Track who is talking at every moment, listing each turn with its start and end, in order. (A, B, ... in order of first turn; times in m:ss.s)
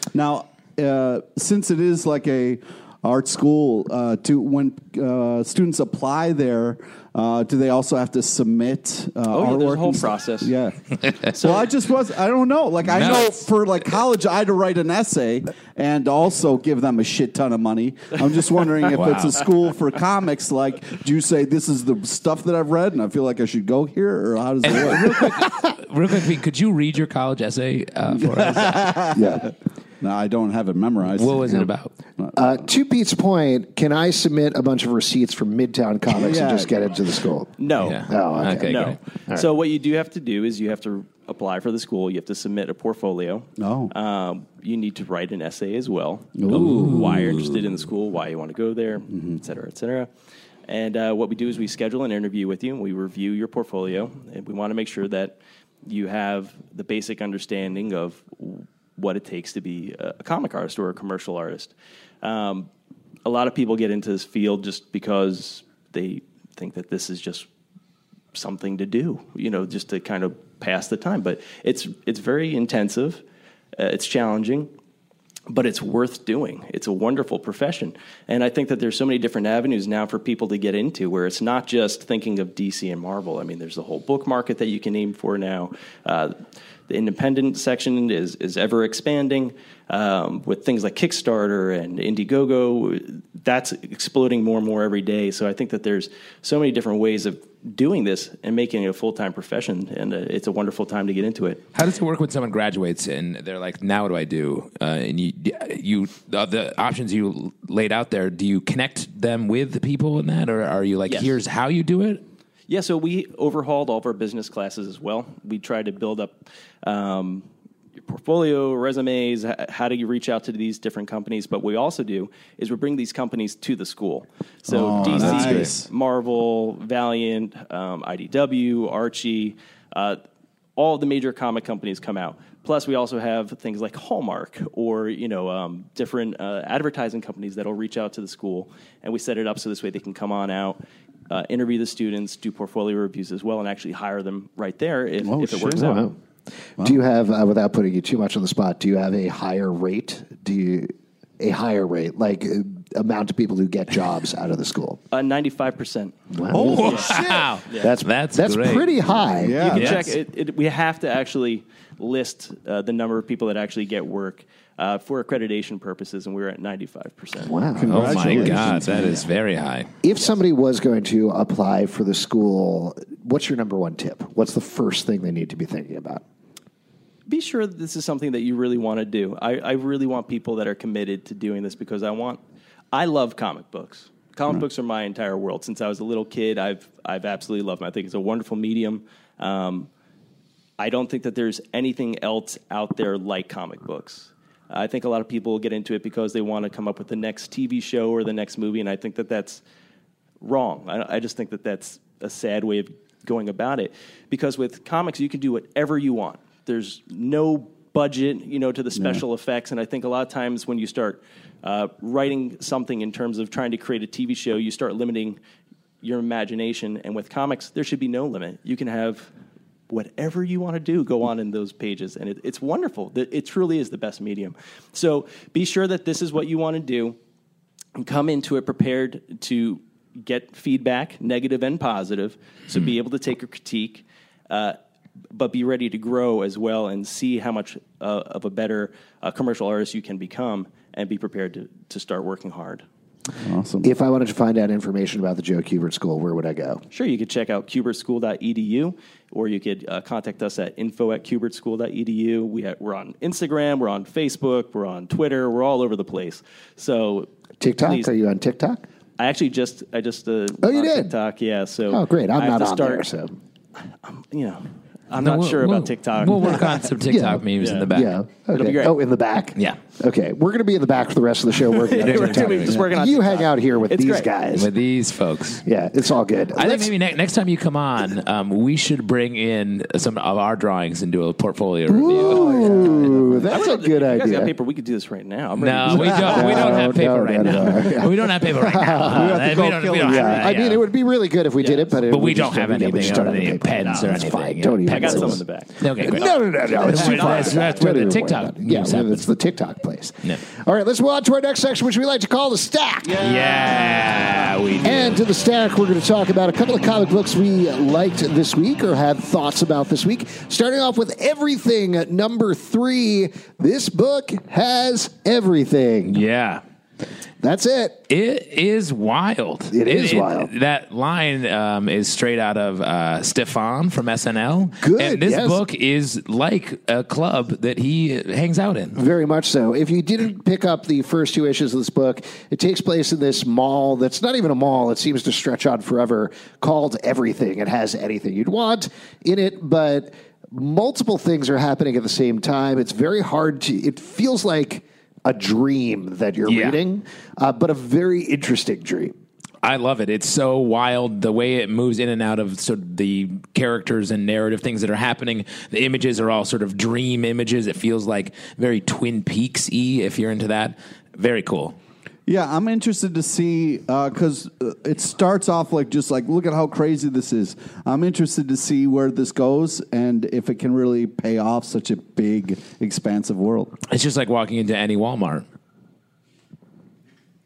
0:00.1-0:25.3 A
0:09.3-0:10.5 B
0:11.0-0:11.3 C
0:11.4-0:11.7 B
0:12.8-0:13.4 C
0:18.9-0:19.4 C
0:24.6-0:28.9 C
0:28.2-0:29.5 A
0:29.1-0:29.5 D
0:30.0-0:31.6 A
0:31.1-0:31.9 C
0:32.2-0:32.5 A
0:32.3-0:37.5 D
0:36.1-0:36.7 A
0:37.6-0:38.0 B
0:37.8-0:39.0 C
0:38.1-0:39.5 D
0:38.6-0:50.1 B
0:43.6-0:43.9 A
0:46.4-0:47.4 A
0:46.5-0:47.0 C
0:49.1-0:49.4 A
0:50.7-1:02.7 B
1:03.2-1:07.5 B
1:08.3-1:13.2 B
1:13.8-1:14.7 B
1:15.5-1:41.6 B
1:41.7-1:52.2 C
1:51.1-1:51.3 B
1:52.7-1:57.5 B
1:58.0-2:10.2 B
2:04.7-2:05.9 A
2:10.8-2:26.1 B
2:25.2-2:25.9 A
2:25.8-2:26.1 D
2:26.8-2:35.0 D
2:35.1-2:36.1 B
2:36.3-2:37.0 D
2:36.5-2:37.5 A
2:36.7-2:38.9 C
2:36.8-2:37.1 B
2:37.8-2:39.8 D
2:39.4-2:40.1 A
2:39.6-2:47.6 B
2:39.7-2:40.1 C
2:47.4-2:48.7 D
2:47.8-2:49.3 A
2:47.9-2:49.9 C
2:50.0-2:56.2 D
2:57.3-3:02.4 B
3:02.9-3:09.9 B
3:10.8-3:19.6 B
3:20.4-3:35.4 B
3:29.0-3:29.2 A
3:36.0-3:39.3 B
3:39.9-3:47.2 B
3:48.0-3:54.8 B
3:55.3-4:02.8 B
4:03.4-4:03.9 A
4:03.8-4:06.8 D
4:06.9-4:18.1 B
4:17.6-4:18.8 D
4:19.2-4:23.1 B
4:20.6-4:21.1 D
4:21.9-4:23.3 D
4:24.0-4:26.8 B
4:25.2-4:28.1 C
4:27.1-4:34.7 D
4:27.6-4:27.9 B
4:28.5-4:29.0 B
4:31.7-4:34.3 B
4:32.1-4:32.6 C
4:34.5-4:35.6 C
4:35.6-4:36.9 D
4:36.6-4:42.5 C
4:41.9-4:44.5 D
4:42.1-4:43.4 A
4:43.5-4:46.7 B
4:45.6-4:50.8 C
4:45.9-4:48.0 A
4:46.3-4:55.4 D
4:49.1-4:50.5 A
4:51.6-4:52.0 B
4:52.1-4:56.3 C
4:54.8-4:58.1 B
4:56.0-5:03.2 D
4:56.9-4:59.2 C
5:03.0-5:04.6 A
5:03.2-5:05.2 C
5:04.8-5:16.2 D
5:16.1-5:16.6 C
5:17.4-5:18.0 D
5:18.1-5:29.0 C
5:19.7-5:20.5 D
5:24.8-5:25.6 D
5:28.9-5:49.1 D
5:46.4-5:46.8 C
5:49.6-6:01.8 C
6:02.3-6:13.8 A
6:13.9-6:15.4 C